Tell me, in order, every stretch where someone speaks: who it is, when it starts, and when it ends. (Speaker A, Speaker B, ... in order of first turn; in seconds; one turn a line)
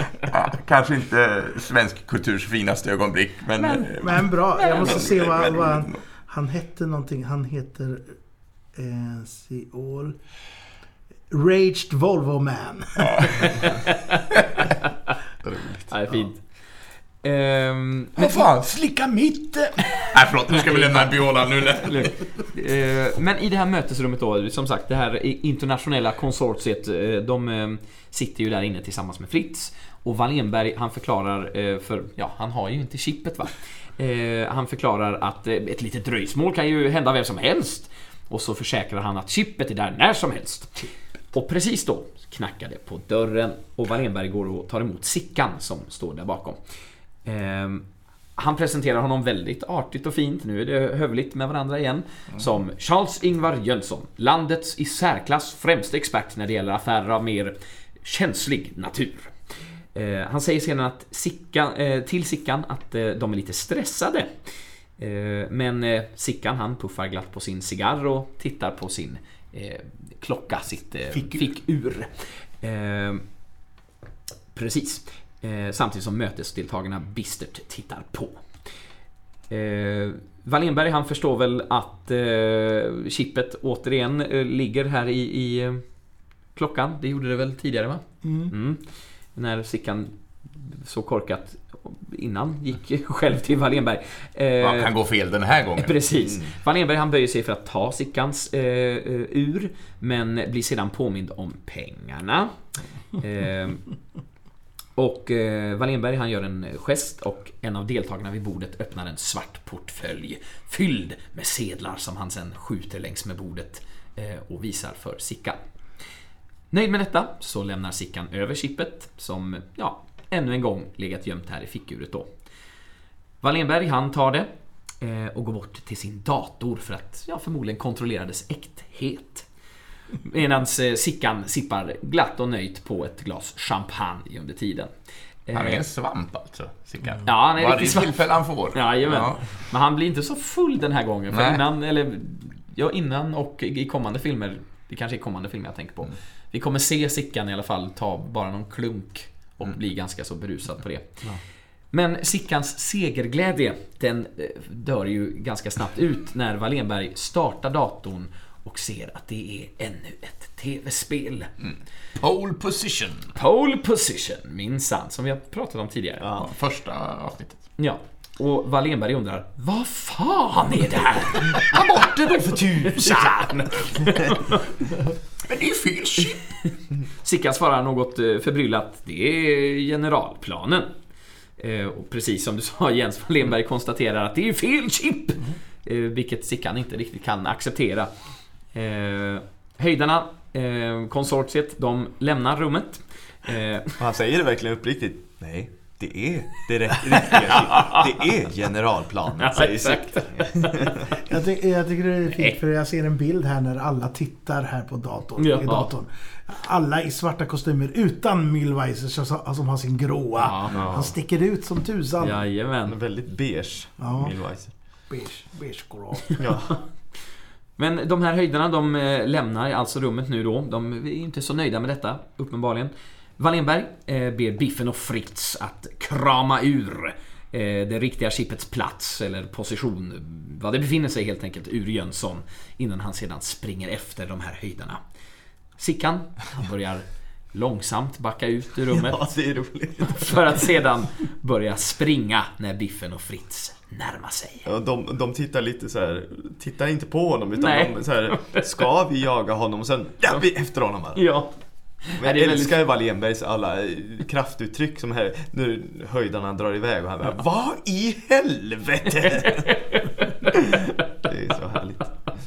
Speaker A: 0.2-6.0
Speaker B: 3.6-8.1
Speaker B: 8.8-10.2
Speaker B: 11.3-13.8
Speaker A: 13.0-13.8
Speaker C: 13.7-14.2
Speaker A: 14.4-14.7
Speaker C: 14.8-15.1
Speaker A: 15.4-16.2
Speaker C: 15.9-16.4
Speaker C: 17.2-18.5
Speaker A: 18.2-22.2
Speaker C: 19.9-46.6
Speaker C: 47.2-47.9
Speaker C: 48.4-59.4
Speaker C: 59.9-64.3
Speaker C: 65.0-73.2
Speaker A: 71.1-71.5
Speaker C: 74.5-78.5
Speaker C: 79.5-85.8
Speaker C: 86.6-88.8
Speaker B: 88.2-88.5
Speaker C: 89.3-94.9
Speaker A: 94.6-95.9
Speaker C: 95.8-102.5
Speaker C: 103.2-103.8
Speaker C: 105.0-115.6
Speaker C: 116.7-122.3
Speaker C: 123.4-124.5
Speaker C: 125.0-129.5
Speaker C: 130.2-134.9
Speaker C: 135.5-135.8
Speaker A: 135.5-139.4
Speaker C: 137.2-138.2
Speaker C: 138.7-151.1
Speaker A: 141.3-141.6
Speaker C: 151.9-161.5
Speaker A: 161.6-163.3
Speaker C: 163.3-166.4
Speaker A: 166.3-167.6
Speaker C: 167.8-174.7
Speaker A: 173.0-173.4
Speaker A: 175.5-176.4
Speaker C: 177.2-180.9
Speaker C: 181.6-188.1
Speaker C: 188.7-193.9
Speaker D: 194.0-201.2
Speaker C: 197.4-198.1
Speaker C: 199.4-200.9
Speaker B: 201.1-212.4
Speaker C: 205.4-205.9
Speaker C: 210.4-210.8
Speaker D: 210.7-211.1
Speaker C: 212.2-213.0
Speaker D: 212.8-214.7
Speaker B: 214.0-214.3
Speaker B: 215.1-216.4
Speaker D: 216.4-216.8
Speaker C: 217.8-235.0
Speaker C: 235.8-239.2
Speaker D: 238.9-240.5
Speaker C: 240.1-244.7
Speaker D: 244.7-251.3
Speaker C: 247.6-248.7
Speaker C: 251.2-251.5
Speaker C: 252.1-252.8
Speaker D: 252.2-259.7
Speaker C: 259.3-260.6
Speaker D: 260.5-262.1